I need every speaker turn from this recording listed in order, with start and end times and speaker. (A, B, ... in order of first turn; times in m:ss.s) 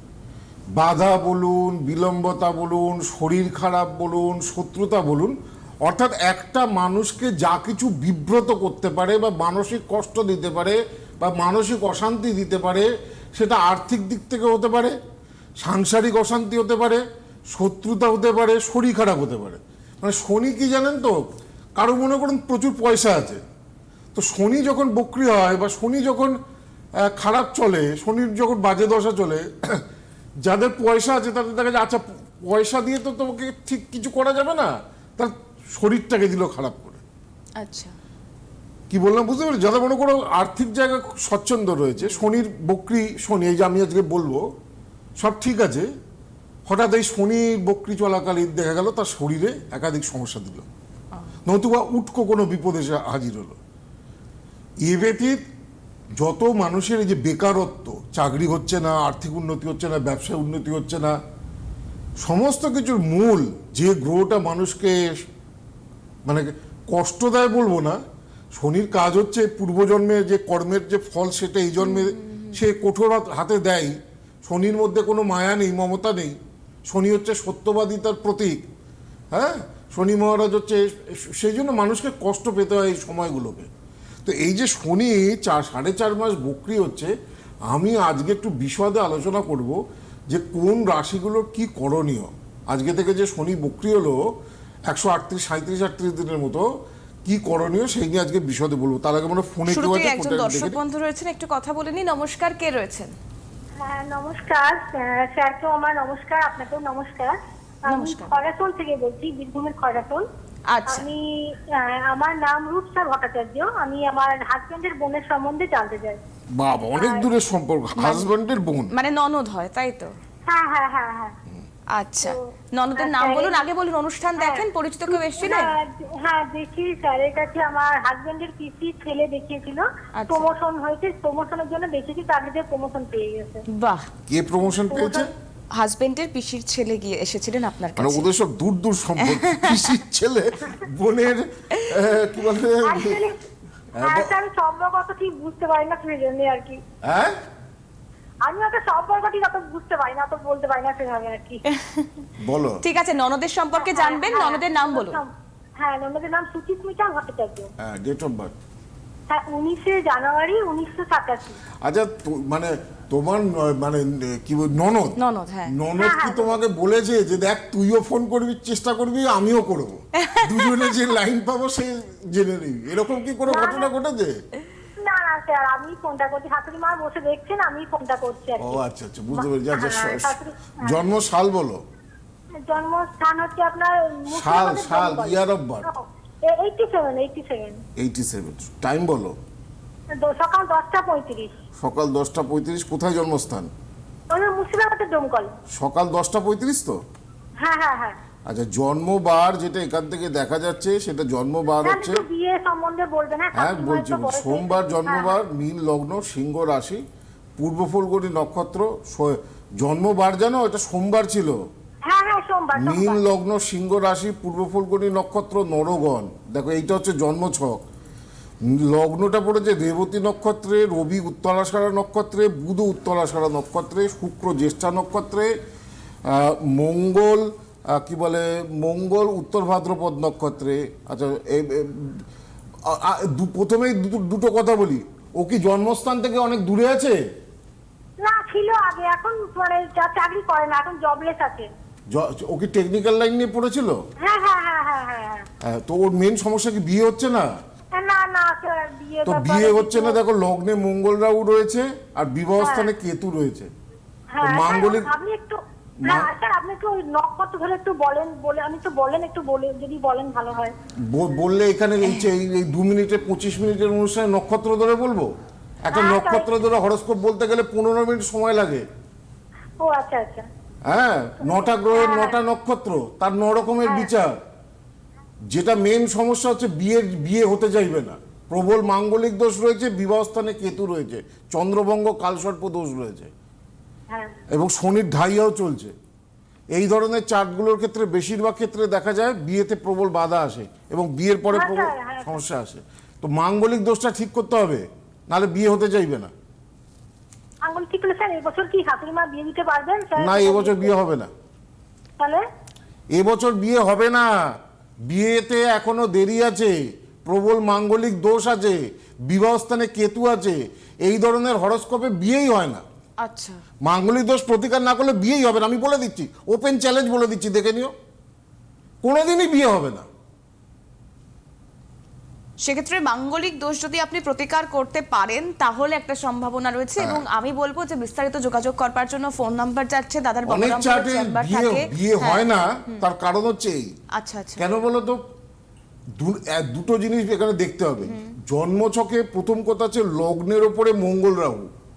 0:00.7-0:15.0 A
0:15.6-0:17.0 A
0:17.5-0:21.2 A
0:21.8-0:23.4 A
0:24.1-0:26.4 A
0:27.0-0:29.8 A
0:30.4-0:37.0 A
0:37.6-0:37.9 B
0:38.9-0:44.4 A
0:45.2-0:45.9 A
0:46.6-0:50.6 A
0:51.4-0:53.6 A
0:54.8-0:55.4 A
0:56.2-1:01.2 A
1:02.2-1:05.2 A
1:06.2-1:08.0 A
1:08.5-1:16.4 A
1:11.8-1:12.6 B
1:16.9-1:18.6 A
1:19.3-1:23.7 A
1:24.2-1:27.1 A
1:27.7-1:34.2 A
1:34.9-1:36.6 A
1:37.2-1:40.8 A
1:39.7-1:43.1 B
1:43.8-1:47.4 C
1:47.9-1:48.4 B
1:47.9-1:50.2 C
1:50.7-1:51.1 B
1:50.9-1:56.2 C
1:56.5-1:58.9 A
1:57.0-1:57.2 C
1:58.0-1:58.3 B
1:58.9-2:00.1 B
2:00.5-2:01.3 C
2:01.9-2:05.7 B
2:03.0-2:03.6 C
2:04.4-2:13.6 C
2:10.2-2:10.5 B
2:13.7-2:14.1 B
2:14.3-2:15.3 A
2:14.8-2:15.3 C
2:15.7-2:18.3 B
2:18.0-2:23.2 A
2:19.2-2:19.9 B
2:22.8-2:23.4 C
2:23.9-2:24.4 A
2:24.0-2:26.8 C
2:27.0-2:27.4 A
2:28.4-2:31.6 C
2:31.7-2:32.1 B
2:32.4-2:32.8 A
2:32.8-2:35.2 B
2:33.8-2:37.7 C
2:37.8-2:38.5 A
2:39.3-2:41.6 C
2:41.8-2:45.2 A
2:45.2-2:45.7 B
2:45.7-2:54.4 A
2:46.0-2:46.6 C
2:50.2-2:50.8 B
2:53.5-2:53.9 C
2:55.0-2:58.8 C
2:58.6-3:01.8 A
2:59.3-3:01.0 C
3:02.7-3:07.8 C
3:04.3-3:05.9 A
3:08.0-3:09.4 A
3:10.2-3:11.5 C
3:11.8-3:13.7 A
3:14.3-3:15.5 C
3:15.7-3:17.0 A
3:17.6-3:18.2 C
3:18.5-3:22.2 A
3:21.8-3:25.3 C
3:23.5-3:27.0 A
3:27.6-3:31.6 A
3:32.0-3:33.2 C
3:32.7-3:37.8 A
3:38.6-3:45.5 A
3:46.2-3:52.2 A
3:52.8-3:57.2 A
3:58.2-4:01.7 C
4:02.1-4:04.0 A
4:04.2-4:05.4 C
4:05.6-4:07.5 A
4:07.9-4:10.2 C
4:09.2-4:13.7 A
4:12.6-4:12.9 C
4:14.3-4:20.7 C
4:14.4-4:15.1 A
4:16.0-4:16.3 A
4:21.1-4:25.3 A
4:25.8-4:28.8 A
4:25.9-4:26.5 C
4:29.8-4:30.4 C
4:30.9-4:34.4 A
4:31.9-4:32.3 C
4:35.5-4:43.3 A
4:44.5-4:45.9 A
4:46.7-4:56.3 A
4:51.5-4:52.3 C
4:57.6-5:00.9 C
5:00.2-5:01.3 A
5:03.1-5:04.5 A
5:05.0-5:12.8 A
5:13.2-5:13.6 B
5:13.8-5:17.9 A
5:19.0-5:20.1 A
5:22.6-5:33.0 B
5:27.0-5:27.2 A
5:30.5-5:33.9 A
5:34.1-5:34.6 B
5:34.6-5:35.2 A
5:36.2-5:41.7 A
5:38.0-5:38.3 B